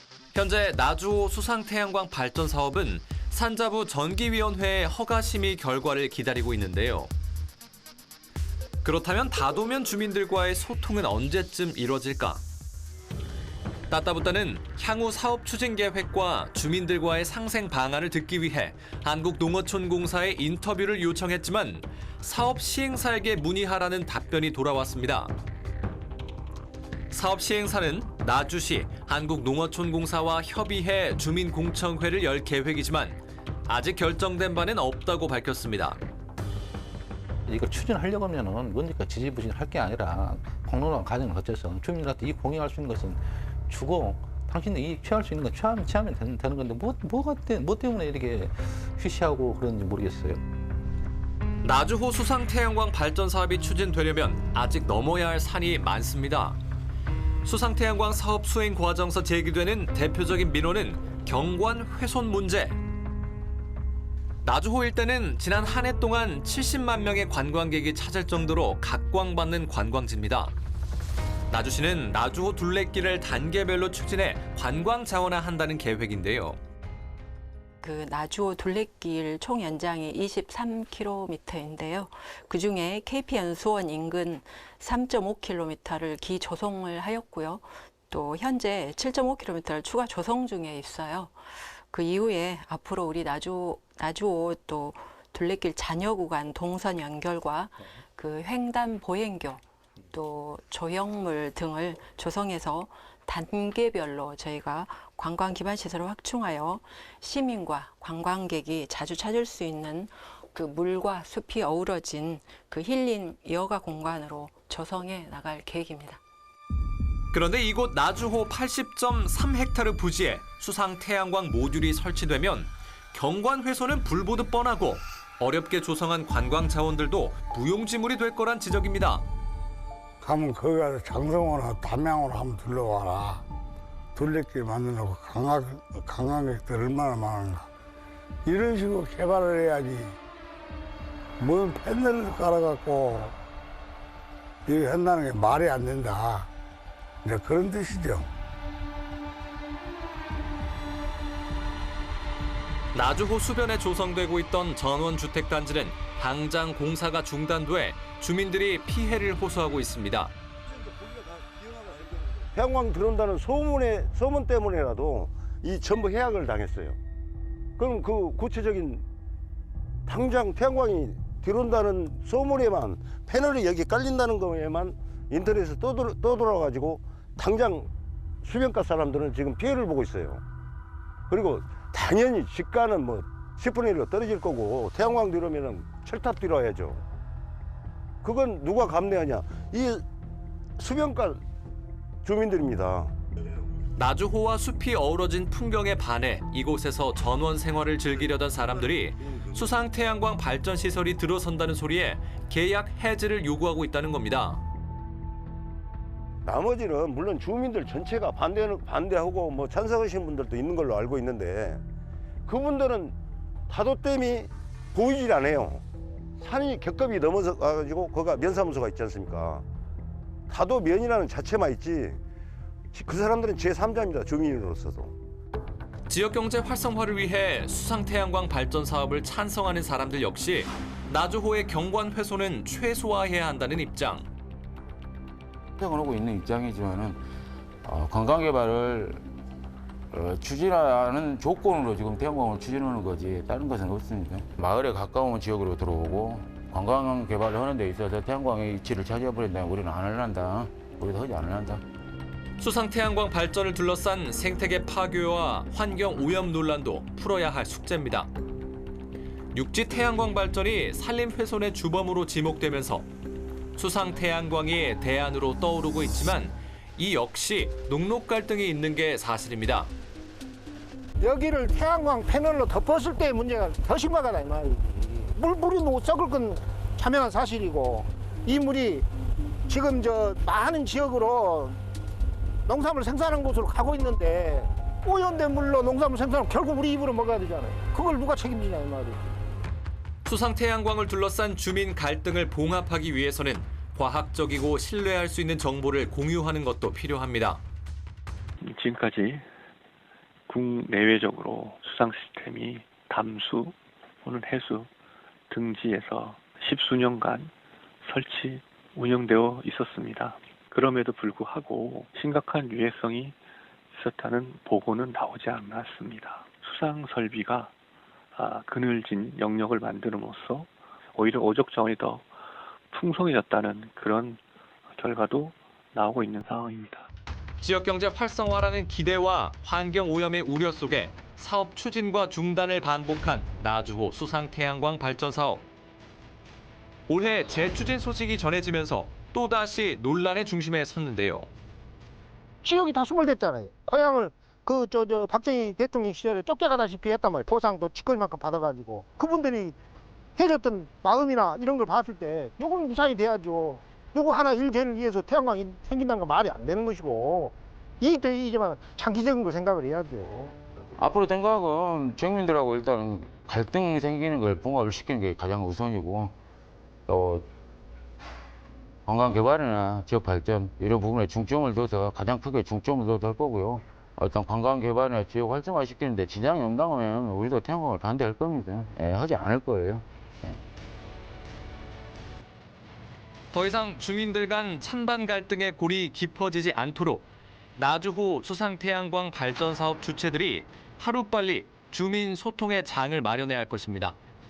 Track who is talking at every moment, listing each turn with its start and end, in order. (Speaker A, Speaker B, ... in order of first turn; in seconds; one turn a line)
Speaker A: 0.3-7.1
Speaker A: 8.8-12.4
Speaker A: 13.9-25.3
Speaker A: 27.1-36.0
Speaker B: 37.5-50.4
Speaker A: 51.6-56.6
Speaker A: 57.4-62.8
Speaker A: 64.4-70.5
Speaker A: 71.5-76.6
Speaker C: 77.8-91.4
Speaker C: 91.9-116.2
Speaker A: 117.3-129.3
Speaker D: 130.2-133.4
Speaker D: 134.2-137.7
Speaker D: 138.4-140.2
Speaker D: 141.4-143.3
Speaker D: 144.7-146.5
Speaker D: 147.2-148.3
Speaker A: 152.9-160.3
Speaker E: 160.7-167.0
Speaker E: 167.8-169.0
Speaker E: 170.1-177.9
Speaker E: 178.4-180.4
Speaker E: 181.3-187.0
Speaker E: 188.2-190.0
Speaker E: 190.8-191.4
Speaker E: 192.2-193.1
Speaker A: 194.0-204.6
Speaker E: 206.4-211.8
Speaker E: 212.5-213.2
Speaker E: 213.7-215.8
Speaker E: 216.4-219.7
Speaker E: 220.5-222.2
Speaker E: 222.9-225.2
Speaker A: 226.1-234.3
Speaker F: 235.8-237.2
Speaker F: 237.8-239.2
Speaker F: 240.1-251.8
Speaker A: 252.6-258.3
Speaker A: 259.5-263.1
Speaker A: 263.8-269.9
Speaker G: 271.2-279.1
Speaker G: 279.7-281.8
Speaker G: 282.7-289.4
Speaker A: 290.2-297.6
Speaker H: 298.6-299.5
Speaker H: 300.5-304.9
Speaker H: 305.5-307.5
Speaker H: 308.0-313.4
Speaker H: 313.9-317.7
Speaker H: 318.4-322.3
Speaker H: 322.9-324.4
Speaker H: 325.0-327.1
Speaker A: 327.6-335.6
Speaker A: 337.1-341.5
Speaker G: 342.6-349.8
Speaker G: 350.4-360.5
Speaker F: 361.0-366.4
Speaker F: 367.1-367.5
Speaker F: 369.1-380.6
Speaker A: 383.5-394.2